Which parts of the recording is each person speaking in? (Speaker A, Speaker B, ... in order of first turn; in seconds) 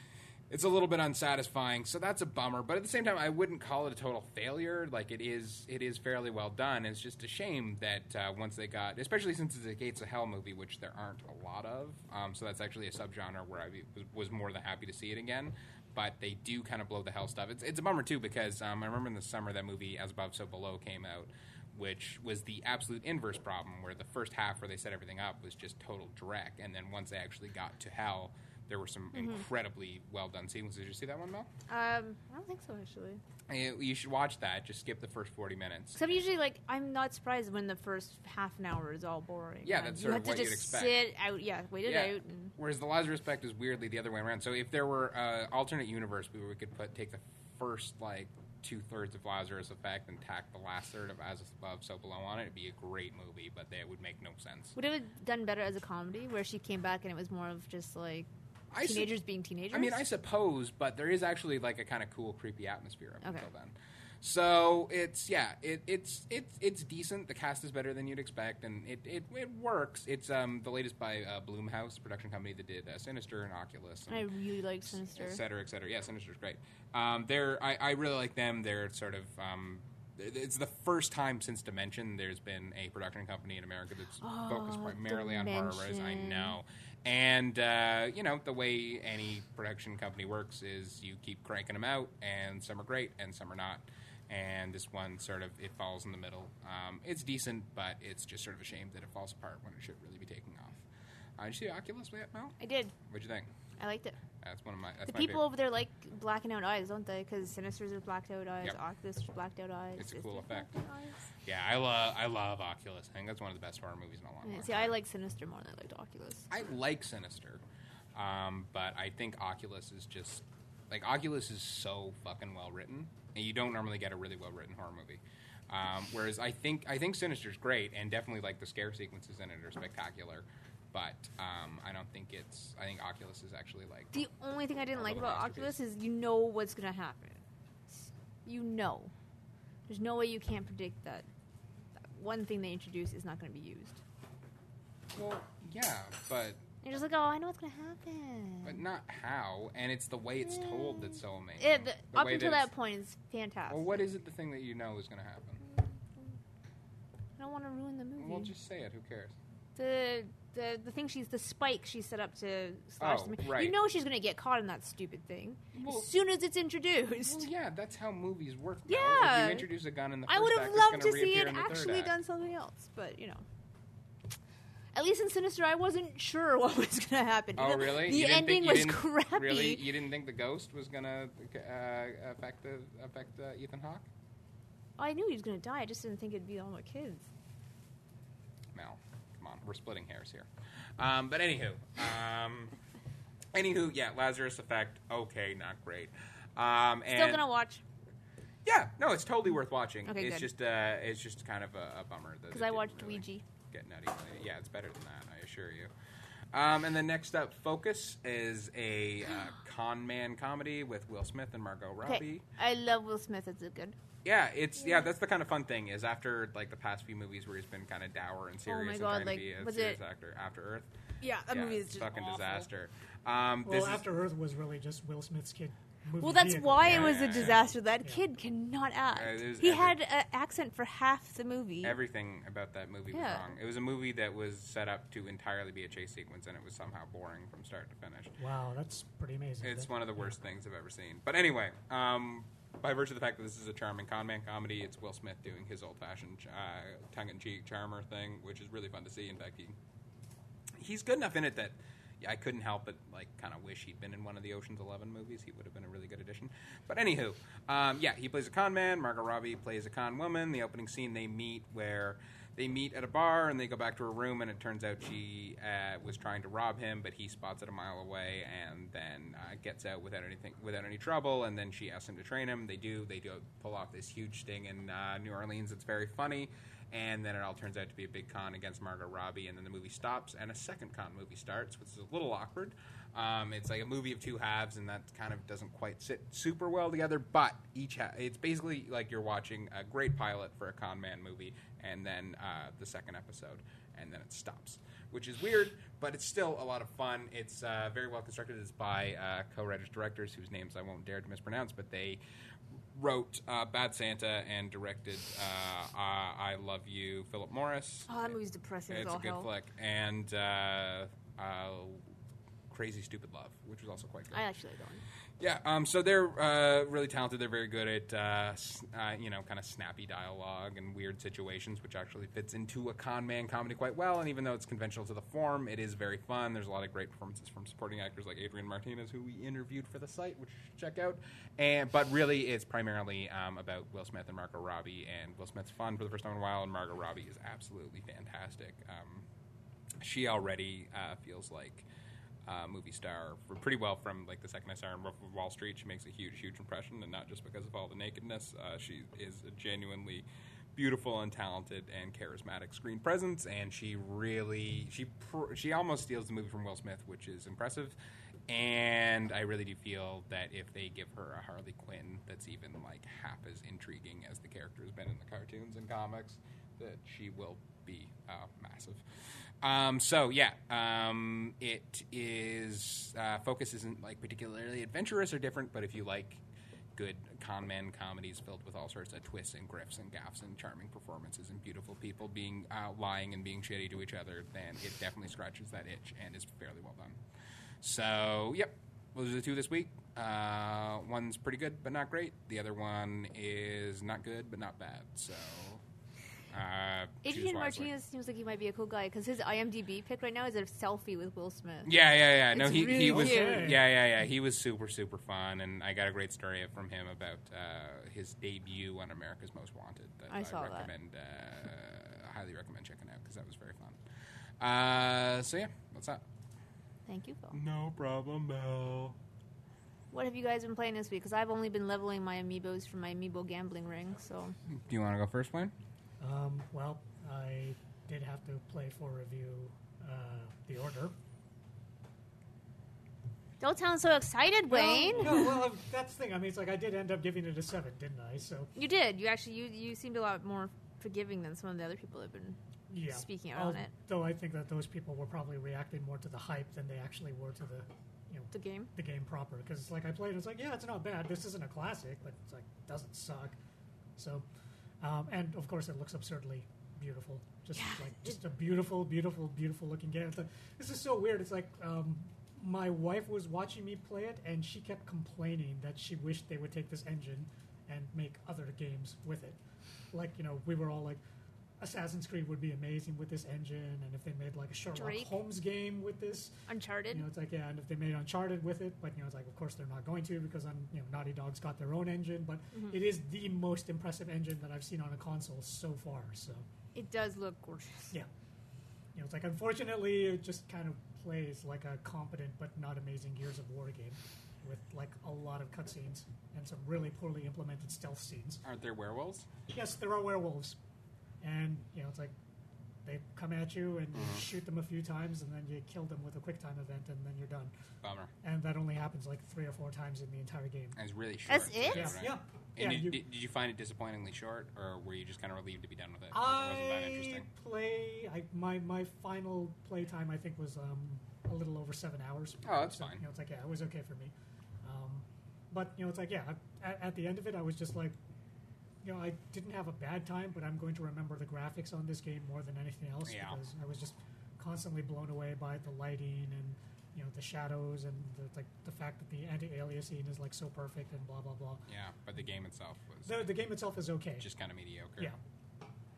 Speaker A: 0.5-31.5, 33.5-36.1, 39.6-41.0, 41.8-54.8, 58.7-59.1, 59.7-74.3, 74.8-100.8, 101.4-103.5, 104.4-105.5, 110.0-110.7, 111.4-115.0, 116.5-117.6, 118.1-134.1, 134.9-135.8, 145.1-146.6, 148.6-152.7, 153.7-155.6, 158.2-159.3, 163.0-163.7, 165.8-166.1, 167.2-172.1, 177.6-184.1, 188.7-192.8, 193.5-197.4, 198.6-205.9, 206.5-212.4, 214.2-220.9, 221.5-224.1, 226.8-227.7, 229.1-230.0, 231.8-238.4, 239.6-249.8, 250.8-302.2, 302.9-308.4, 308.9-312.1, 312.7-314.4, 315.4-339.3, 340.0-341.9, 342.4-357.9, 358.5-369.0, 369.6-376.4, 376.9-387.2, 387.8-395.8, 396.5-397.9, 401.8-414.0, 414.6-416.2, 417.5-419.2, 424.7-425.7, 498.6-499.5, 504.1-504.5, 508.0-508.3, 510.9-517.5, 522.6-523.2, 533.2-533.6, 541.9-543.5, 544.4-545.3
Speaker B: 29.1-29.4, 31.7-33.2, 36.0-42.5, 54.8-60.0, 74.1-75.4, 84.2-86.6, 102.6-102.9, 103.8-104.2, 105.0-111.3, 114.4-116.5, 134.1-139.1, 139.9-141.2, 142.0-144.0, 146.8-148.8, 150.5-154.1, 155.7-156.3, 157.4-158.5, 159.8-167.4, 168.9-169.7, 170.3-173.4, 174.9-179.8, 185.0-187.2, 197.1-197.8, 200.1-200.5, 202.5-203.4, 212.0-213.9, 218.7-220.0, 221.2-222.7, 226.2-231.9, 233.1-233.4, 308.1-309.5, 314.3-315.0, 397.2-403.7, 410.3-410.9, 417.1-417.6, 420.1-424.5, 433.6-435.4, 438.7-442.6, 443.1-443.9, 448.5-448.9, 457.7-458.4, 474.9-475.4, 476.7-477.3, 482.7-483.0, 486.9-488.1, 511.5-512.2
Speaker C: 223.6-228.2, 238.4-240.3, 403.1-403.8, 426.2-431.1, 434.7-438.7, 442.9-453.6, 454.2-454.4, 455.0-469.6, 470.1-471.2, 471.8-486.6, 489.1-498.6, 499.7-500.8, 501.4-502.3, 503.0-507.7, 508.4-511.0, 511.9-513.2, 516.3-528.1, 529.0-541.8, 543.3-544.5